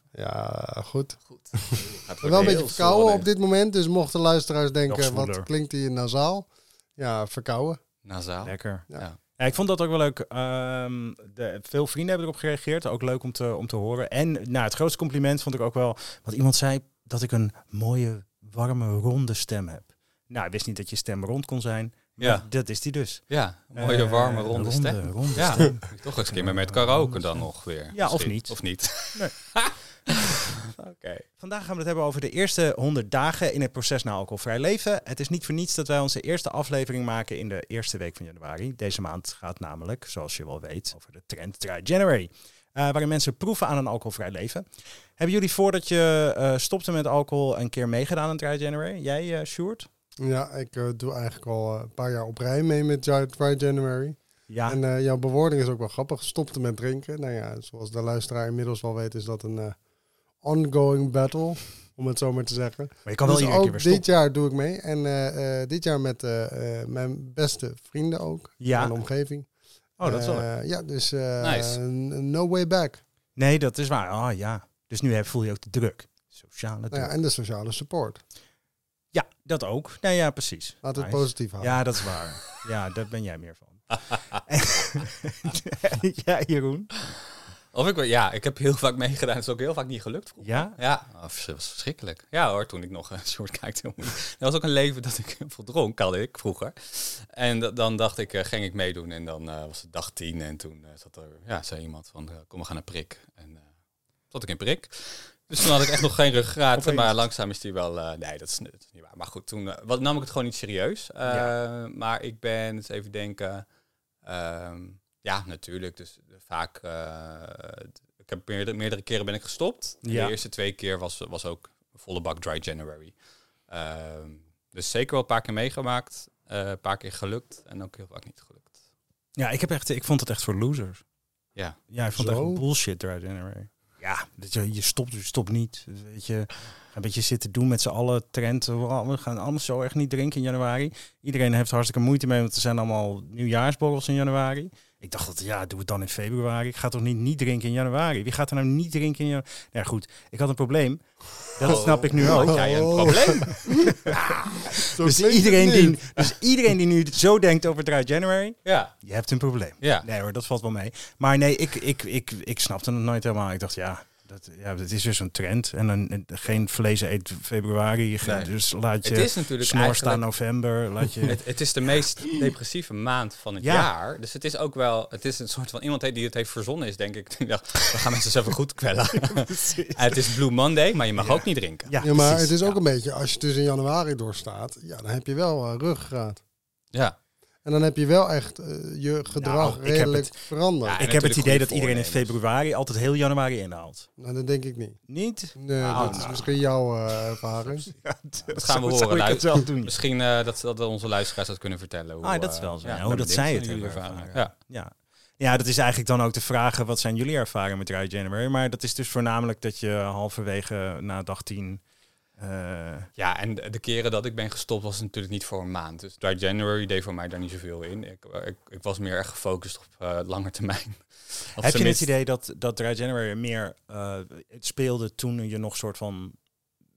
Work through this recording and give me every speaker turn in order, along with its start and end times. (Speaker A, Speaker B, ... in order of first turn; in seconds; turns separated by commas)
Speaker A: 0.1-7.8, Speaker B: 1.3-3.2, Speaker C: 4.9-5.5, Speaker B: 8.0-9.2, Speaker C: 8.4-29.4, Speaker B: 22.2-22.5, Speaker B: 23.3-31.2, Speaker C: 31.4-49.9, Speaker A: 50.2-59.8, Speaker C: 54.5-54.8, Speaker A: 60.4-73.0, Speaker C: 63.0-64.0, Speaker C: 68.6-68.9, Speaker C: 70.0-70.5, Speaker B: 71.4-71.8, Speaker C: 73.3-77.1, Speaker A: 76.9-78.2, Speaker C: 79.1-86.9, Speaker A: 80.8-82.0, Speaker B: 83.9-84.4, Speaker B: 87.7-103.7, Speaker C: 90.4-90.8, Speaker B: 104.3-113.7, Speaker C: 106.8-107.2, Speaker C: 111.2-111.5, Speaker B: 114.2-128.8, Speaker C: 120.0-120.3, Speaker C: 129.3-131.0, Speaker C: 131.9-154.1, Speaker A: 132.0-132.6, Speaker B: 151.6-154.7, Speaker A: 152.4-153.9, Speaker A: 154.7-156.2, Speaker C: 154.9-171.4, Speaker B: 158.6-158.9, Speaker B: 159.8-160.1, Speaker B: 168.2-170.6, Speaker B: 171.2-182.8, Speaker C: 173.6-173.9, Speaker C: 179.3-180.2, Speaker C: 181.2-182.6, Speaker A: 182.0-186.4, Speaker B: 186.9-187.2, Speaker A: 187.6-191.0, Speaker C: 189.3-190.4, Speaker B: 190.8-192.4, Speaker C: 191.0-194.1, Speaker A: 194.2-198.0, Speaker C: 195.1-196.6, Speaker B: 195.8-196.6, Speaker C: 197.8-199.9, Speaker B: 198.4-204.5, Speaker C: 202.2-211.8, Speaker C: 212.3-213.1, Speaker B: 213.2-222.1, Speaker C: 221.6-226.4